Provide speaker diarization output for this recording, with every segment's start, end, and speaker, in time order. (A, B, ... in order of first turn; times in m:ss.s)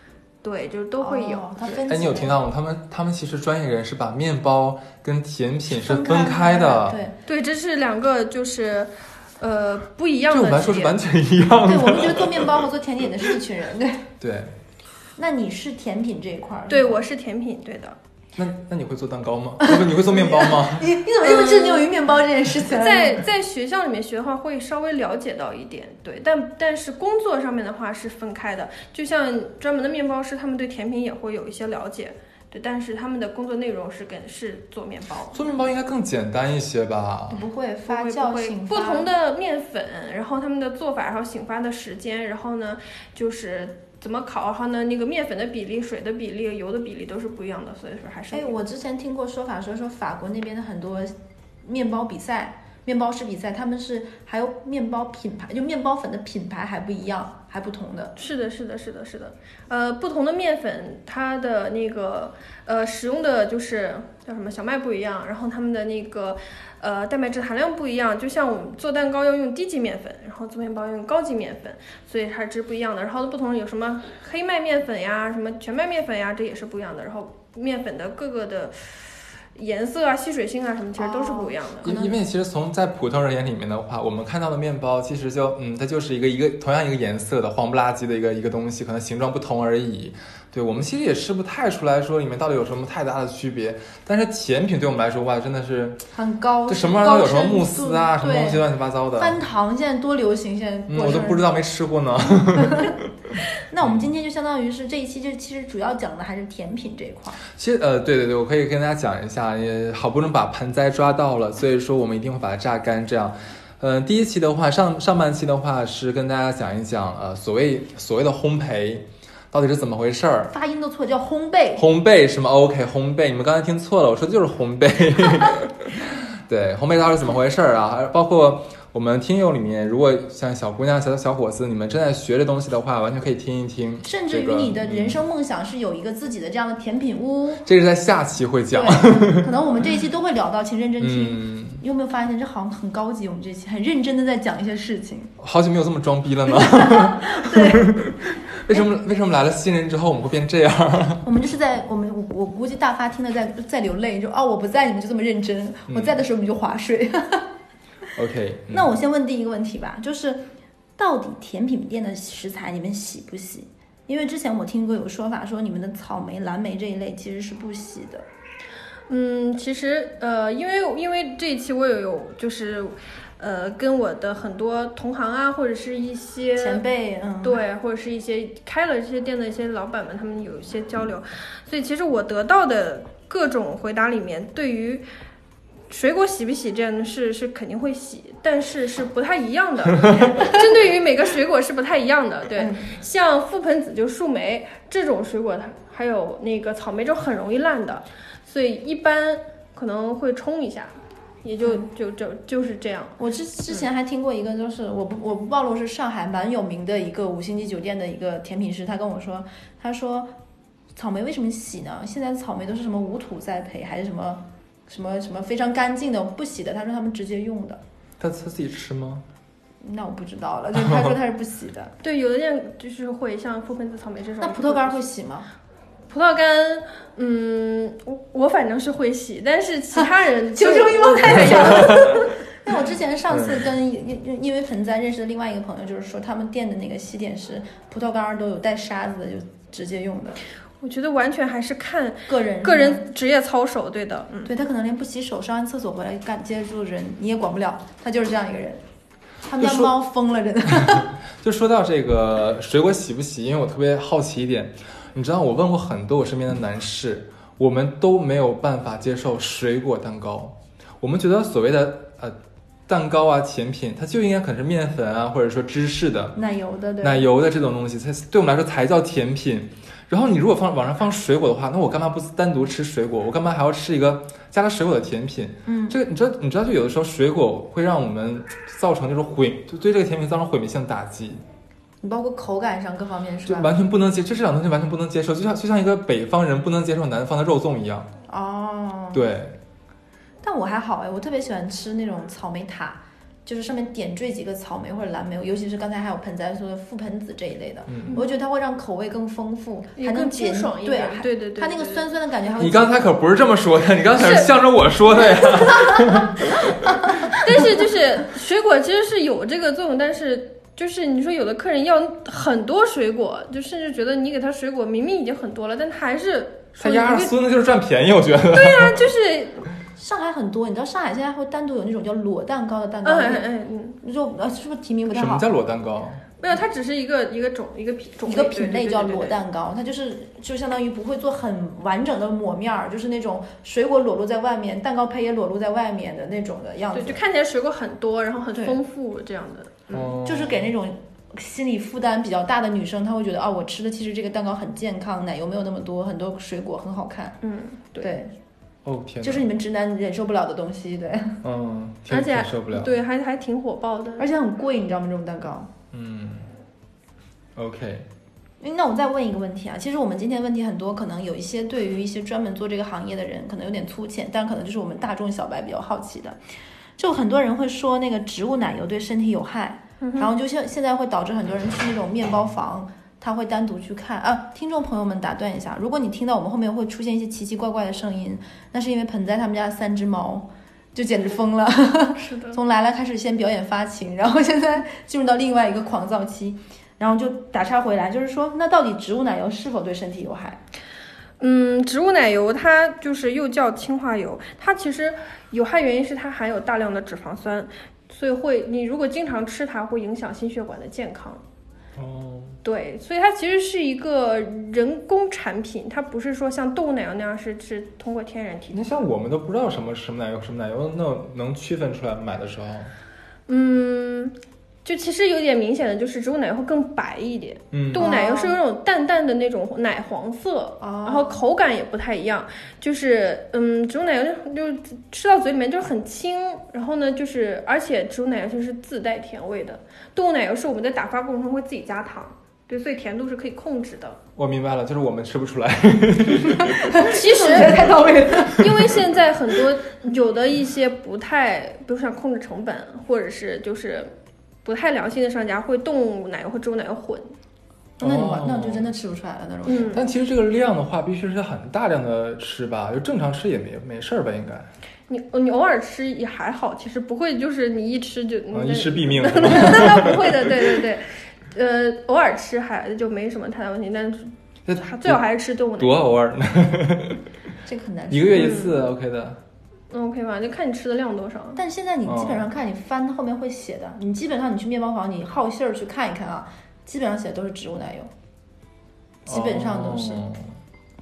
0:00.4-0:01.6 A
0:01.0-0:02.4 B
0:01.9-0:07.0 C
0:05.7-0:07.2 B
0:07.3-0:11.0 A
0:10.3-0:12.6 C
0:11.6-0:14.1 B
0:14.2-0:14.6 C
0:15.2-0:17.0 B
0:16.7-0:18.0 A
0:18.4-0:21.0 C
0:19.6-0:23.2 B
0:21.2-0:21.9 A
0:22.7-0:35.5 A
0:35.3-0:37.5 C
0:37.3-0:39.1 B
0:37.9-0:48.6 A
0:48.3-0:58.1 B
0:58.2-1:21.9 A
1:21.0-1:22.2 B
1:21.8-1:36.1 C
1:36.1-1:38.6 B
1:36.7-1:39.4 C
1:39.2-1:41.4 B
1:40.9-1:44.1 C
1:42.6-1:43.0 B
1:43.7-1:47.4 B
1:47.5-2:00.5 C
2:00.5-2:01.9 B
2:01.8-2:15.2 C
2:14.0-2:17.7 B
2:17.7-2:19.5 C
2:18.7-2:25.3 B
2:21.0-2:21.8 C
2:25.4-2:31.2 C
2:26.5-2:28.0 B
2:31.2-2:37.5 B
2:35.9-2:36.2 C
2:38.2-2:38.9 C
2:38.7-2:48.2 B
2:49.1-2:56.8 A
2:56.6-2:57.6 B
2:57.4-3:05.0 A
3:05.9-3:23.2 A
3:12.6-3:12.9 B
3:23.2-3:30.3 B
3:30.9-3:37.8 B
3:38.2-3:39.2 C
3:39.8-3:42.0 B
3:42.0-3:45.0 A
3:44.4-3:45.5 B
3:46.1-3:52.3 A
3:50.0-4:00.4 B
3:51.5-3:52.2 C
3:53.3-3:53.7 C
4:00.8-4:04.5 A
4:02.3-4:03.1 B
4:04.4-4:08.8 B
4:09.4-4:11.1 B
4:09.6-4:10.0 C
4:10.7-4:22.4 C
4:22.9-4:26.4 C
4:26.4-4:27.3 B
4:27.0-4:41.4 C
4:35.7-4:36.0 B
4:42.0-4:43.7 B
4:43.4-4:48.1 C
4:48.3-4:49.3 B
4:49.1-4:49.6 C
4:50.4-5:03.1 B
4:57.9-4:58.2 C
5:00.0-5:02.1 A
5:02.6-5:07.4 C
5:04.2-5:04.5 A
5:07.3-5:17.3 A
5:16.8-5:19.1 C
5:18.5-5:19.6 A
5:20.0-5:23.5 B
5:23.0-5:24.0 A
5:24.0-5:25.5 B
5:25.1-5:26.2 C
5:26.4-5:29.4 A
5:28.3-5:37.2 B
5:36.9-5:40.1 A
5:39.9-5:40.7 C
5:40.2-5:47.4 B
5:47.4-5:48.2 A
5:48.0-5:48.3 B
5:48.8-5:49.5 C
5:49.2-5:51.4 B
5:51.4-5:53.0 C
5:52.1-5:54.3 A
5:54.2-5:55.7 B
5:55.9-5:56.5 C
5:57.6-5:58.1 C
5:58.6-6:06.4 B
6:07.0-6:30.6 B
6:10.0-6:10.3 A
6:22.2-6:22.6 A
6:31.4-6:41.4 A
6:42.0-6:42.6 C
6:42.6-6:49.0 A
6:48.7-6:52.9 C
6:53.5-7:14.2 A
6:57.7-6:58.1 C
6:58.0-6:58.6 B
7:00.8-7:01.4 B
7:14.4-7:18.5 C
7:16.7-7:18.7 B
7:17.0-7:17.9 A
7:18.5-7:24.1 A
7:24.6-7:27.4 A
7:28.0-7:30.0 B
7:28.0-7:28.9 C
7:29.7-7:30.0 A
7:29.9-7:34.7 C
7:35.1-7:46.0 A
7:38.5-7:40.5 C
7:44.7-7:45.2 C
7:45.8-7:47.2 C
7:47.7-7:48.8 B
7:48.1-7:49.4 C
7:48.4-7:48.8 A
7:49.9-7:51.6 A
7:51.6-7:58.1 B
7:52.1-7:52.5 C
7:59.3-8:00.5 C
7:59.3-8:00.2 B